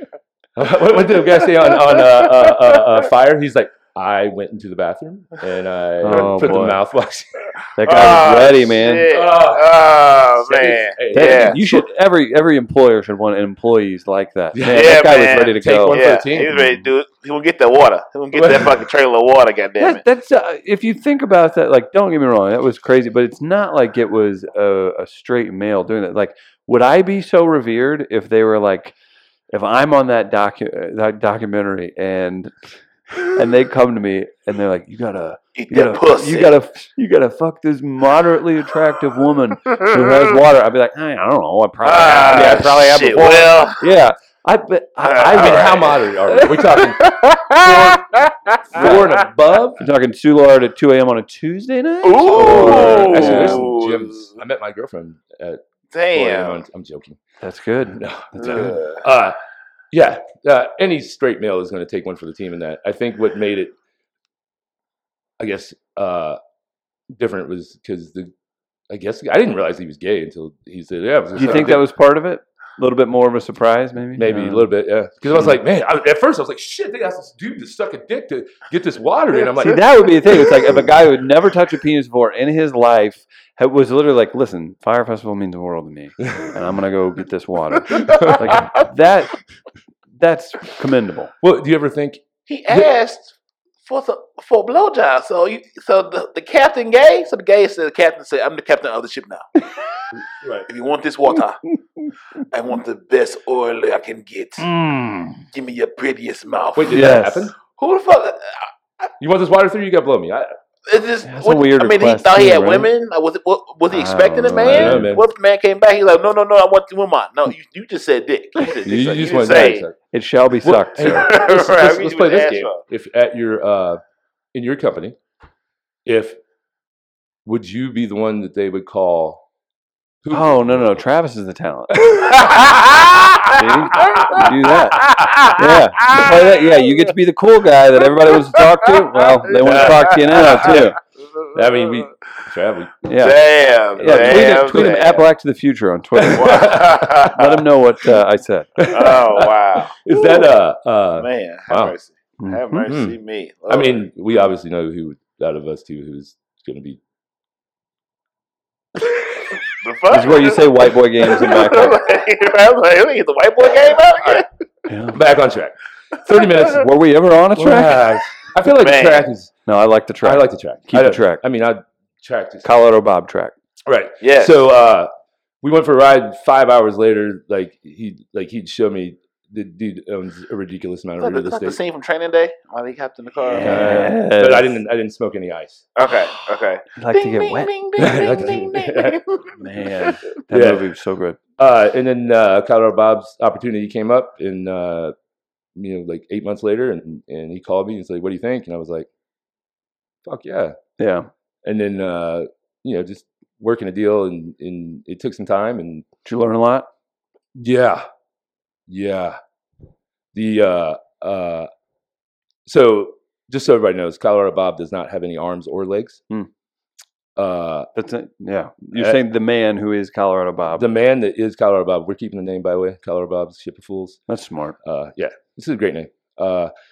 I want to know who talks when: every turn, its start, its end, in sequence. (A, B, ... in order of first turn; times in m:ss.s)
0:00.6-0:07.5 A
0:06.0-0:06.8 B
0:07.8-0:09.1 B
0:07.8-0:11.6 C
0:09.1-0:09.8 A
0:10.3-0:11.9 A
0:11.1-0:16.0 B
0:14.5-0:16.7 A
0:14.7-0:20.0 C
0:18.4-0:18.8 A
0:19.8-0:28.9 B
0:29.5-0:45.8 B
0:35.6-0:36.6 C
0:41.8-0:43.8 C
0:42.3-0:42.7 A
0:45.0-0:49.2 C
0:45.3-0:49.8 A
0:48.7-0:49.0 B
0:49.8-0:53.7 B
0:52.0-0:54.3 C
0:52.3-0:55.6 A
0:55.9-0:56.6 C
0:56.1-0:57.2 A
0:57.4-0:58.8 B
0:57.9-0:59.4 A
0:58.4-0:59.0 C
0:59.9-1:03.8 A
1:05.4-1:06.4 A
1:07.1-1:08.3 A
1:08.9-1:11.9 A
1:11.4-1:14.7 B
1:14.2-1:20.8 A
1:19.6-1:29.4 B
1:28.0-1:28.5 A
1:30.2-1:31.3 B
1:31.4-1:32.9 A
1:32.5-1:33.3 C
1:33.8-1:39.7 C
1:40.4-1:40.7 A
1:40.7-1:41.7 C
1:42.4-1:44.7 C
1:44.6-1:45.4 B
1:45.5-1:48.7 C
1:46.8-1:47.6 A
1:46.9-1:47.5 B
1:49.2-1:50.5 A
1:50.9-1:59.9 C
1:51.3-1:52.9 B
1:53.9-1:55.1 B
1:54.6-1:55.3 A
1:58.8-2:00.0 A
2:00.1-2:01.3 B
2:00.6-2:04.0 A
2:01.0-2:02.8 C
2:04.5-2:05.2 A
2:06.1-2:06.4 A
2:07.5-2:09.4 A
2:10.2-2:11.0 A
2:10.3-2:12.1 B
2:12.0-2:12.8 A
2:12.4-2:14.3 C
2:13.5-2:21.0 B
2:14.0-2:15.4 A
2:15.0-2:16.3 C
2:19.6-2:20.9 C
2:19.6-2:20.9 A
2:21.5-2:23.0 A
2:23.0-2:23.4 B
2:23.2-2:25.3 C
2:24.0-2:24.9 A
2:24.0-2:28.8 B
2:26.2-2:27.5 A
2:26.4-2:27.6 C
2:28.8-2:32.0 A
2:28.9-2:30.0 C
2:31.2-2:34.0 C
2:32.4-2:32.9 B
2:32.9-2:33.2 A
2:33.7-2:37.0 A
2:39.7-2:44.5 C
2:40.1-2:42.0 B
2:44.9-2:45.2 B
2:45.1-2:46.8 A
2:46.4-2:48.0 B
2:47.6-2:49.5 A
2:48.8-2:49.3 C
2:49.7-2:51.4 B
2:50.2-2:52.7 A
2:52.6-2:53.5 B
2:53.9-2:55.1 A
2:54.2-2:54.6 C
2:55.6-3:01.8 A
3:01.2-3:04.1 C
3:03.5-3:04.8 B
3:03.6-3:05.8 A
3:06.0-3:09.6 C
3:07.0-3:07.7 B
3:08.0-3:09.2 A
3:09.6-3:11.4 B
3:10.5-3:10.9 A
3:11.6-3:15.1 A
3:15.8-3:19.1 A
3:20.2-3:20.8 A
3:21.0-3:21.3 B
3:21.6-3:26.1 A
3:26.2-3:26.9 B
3:27.6-3:28.0 A
3:28.9-3:29.4 A
3:30.3-3:31.7 A
3:32.7-3:36.2 A
3:37.4-3:37.9 A
3:38.0-3:40.9 B
3:38.9-3:39.2 A
3:40.7-3:44.2 A
3:44.3-3:44.8 B
3:44.8-3:46.7 A